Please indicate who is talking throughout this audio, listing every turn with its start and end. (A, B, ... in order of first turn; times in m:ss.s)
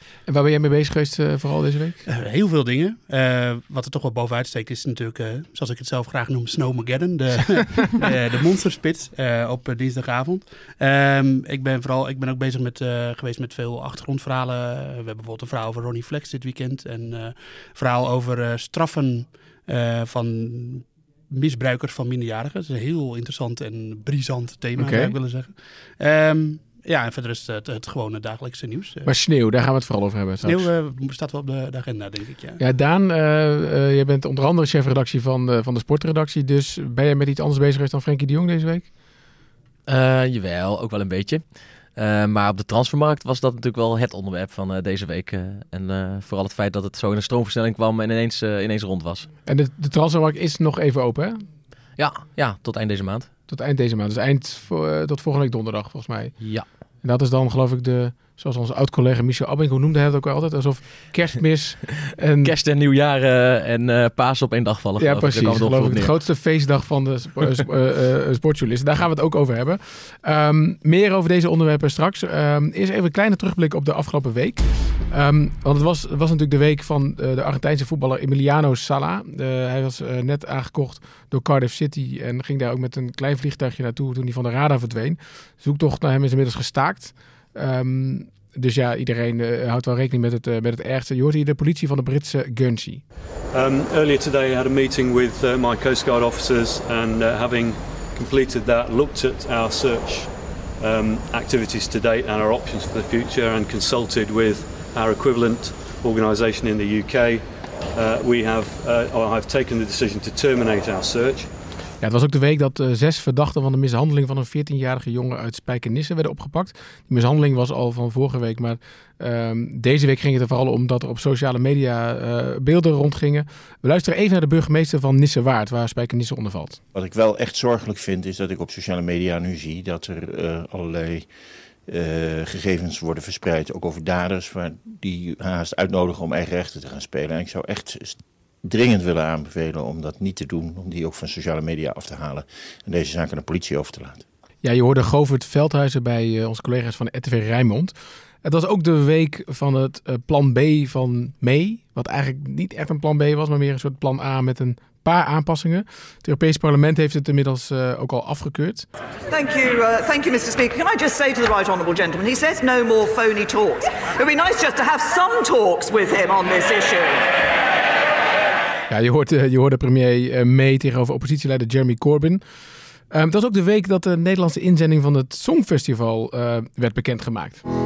0:00.3-0:02.0 A
0:02.1-0:29.1 B
0:24.8-0:25.2 A
0:29.0-0:30.7 A
0:30.4-0:32.6 B
0:32.6-0:38.9 A
0:39.9-0:49.3 C
0:49.5-0:51.4 A
0:52.0-0:53.3 C
0:53.5-0:56.4 A
0:56.4-0:56.7 C
0:57.0-1:02.5 A
1:02.4-1:06.1 C
1:05.0-1:33.0 A
1:33.5-1:51.5 D
1:52.0-2:06.8 A
2:06.9-2:11.3 E
2:11.8-2:24.2 E
2:24.6-2:38.9 A
2:39.3-2:47.3 F
2:48.9-2:52.4 A
2:53.1-2:57.6 A